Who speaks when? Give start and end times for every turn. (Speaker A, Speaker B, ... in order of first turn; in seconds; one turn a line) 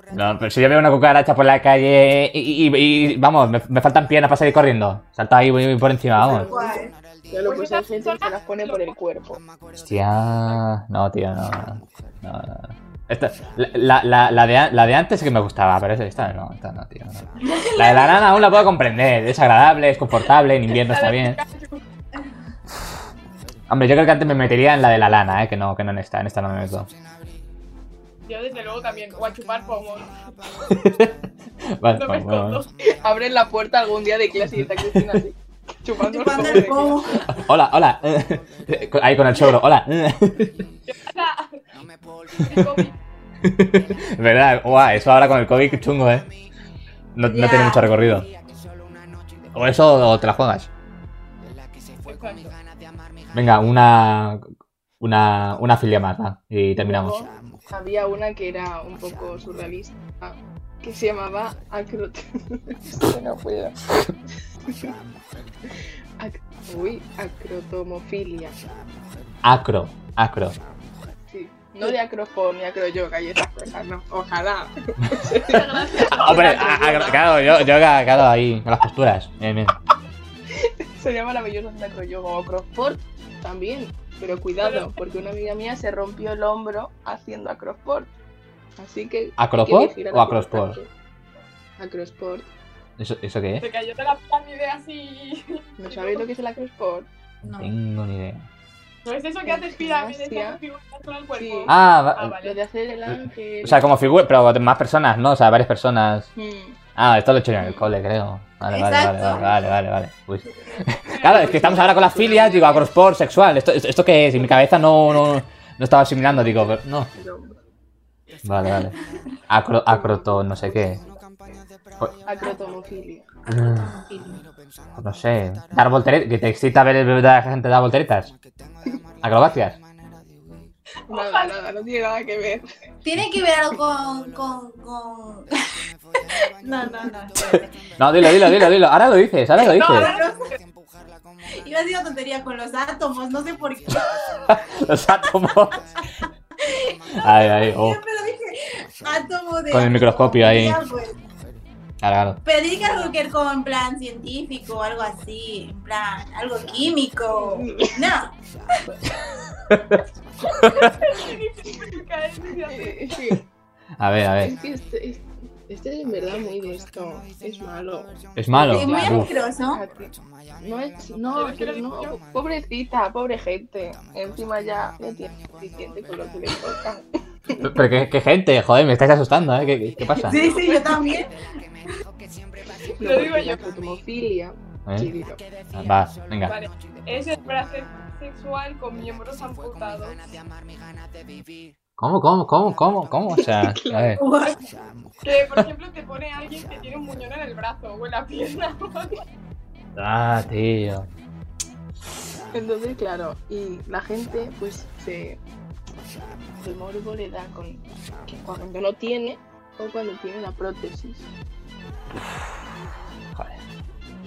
Speaker A: 0.1-6.5
Speaker B: 6.2-9.4
Speaker C: 6.2-6.9
Speaker D: 7.4-8.9
Speaker A: 9.8-21.4
Speaker C: 17.4-18.4
Speaker D: 20.7-21.8
Speaker A: 23.7-26.9
Speaker D: 28.3-30.1
Speaker A: 30.7-31.1
Speaker A: 31.7-32.6
Speaker D: 31.9-32.7
Speaker B: 33.0-37.3
Speaker A: 34.6-35.2
Speaker C: 36.0-37.3
Speaker A: 37.3-40.6
Speaker D: 40.9-41.6
Speaker A: 42.4-42.9
Speaker D: 42.4-43.0
Speaker A: 43.4-46.3
Speaker A: 47.1-48.3
Speaker C: 47.3-48.2
Speaker A: 49.5-50.7
Speaker D: 52.0-52.5
Speaker A: 53.3-54.4
Speaker A: 55.0-57.2
Speaker B: 56.8-63.9
Speaker B: 64.7-64.9
Speaker B: 66.2-68.6
Speaker A: 69.4-70.6
Speaker B: 71.3-77.3
Speaker D: 75.3-77.4
Speaker A: 75.5-79.8
Speaker B: 80.6-88.1
Speaker D: 84.6-84.9
Speaker B: 88.8-90.9
Speaker A: 89.4-90.8
Speaker B: 91.8-92.5
Speaker A: 93.0-93.7
Speaker D: 93.6-96.2
Speaker B: 95.8-97.1
Speaker C: 97.4-97.7
Speaker A: 97.5-98.5
Speaker D: 99.0-102.6
Speaker B: 99.5-100.6
Speaker B: 101.3-101.7
Speaker A: 101.7-102.4
Speaker B: 102.4-103.9
Speaker A: 103.6-106.3
Speaker B: 106.4-106.8
Speaker A: 107.0-117.1
Speaker C: 108.7-109.7
Speaker D: 111.1-112.2
Speaker B: 111.2-112.8
Speaker B: 116.3-117.5
Speaker A: 118.4-119.0
Speaker A: 119.5-121.0
Speaker B: 119.9-121.1
Speaker B: 122.2-123.3
Speaker C: 123.5-124.5
Speaker A: 123.5-123.9
Speaker A: 125.0-128.3
Speaker A: 129.2-129.8
Speaker B: 131.1-132.7
Speaker D: 131.1-131.5
Speaker C: 133.0-135.5
Speaker C: 136.6-138.7
Speaker A: 138.0-140.1
Speaker D: 139.7-140.3
Speaker C: 139.8-140.5
Speaker C: 141.5-144.5
Speaker A: 144.5-145.8
Speaker C: 146.6-151.2
Speaker A: 147.2-148.0
Speaker A: 149.7-150.8
Speaker A: 152.0-152.4
Speaker C: 152.4-158.3
Speaker B: 157.4-158.1
Speaker A: 159.7-160.0
Speaker D: 160.6-163.2
Speaker A: 160.7-160.9
Speaker B: 162.7-163.4
Speaker A: 164.0-164.6
Speaker B: 164.4-177.8
Speaker A: 168.4-169.4
Speaker C: 168.6-169.8
Speaker D: 171.3-172.2
Speaker A: 177.6-180.5
Speaker C: 180.2-181.3
Speaker B: 183.0-185.4
Speaker D: 183.0-183.6
Speaker A: 184.9-185.1
Speaker A: 185.7-186.6
Speaker D: 186.4-190.2
Speaker A: 192.0-194.2
Speaker B: 193.4-194.3
Speaker C: 194.2-194.6
Speaker D: 195.2-199.2
Speaker A: 200.0-201.1
Speaker B: 202.5-205.4
Speaker B: 206.6-211.3
Speaker A: 213.3-213.6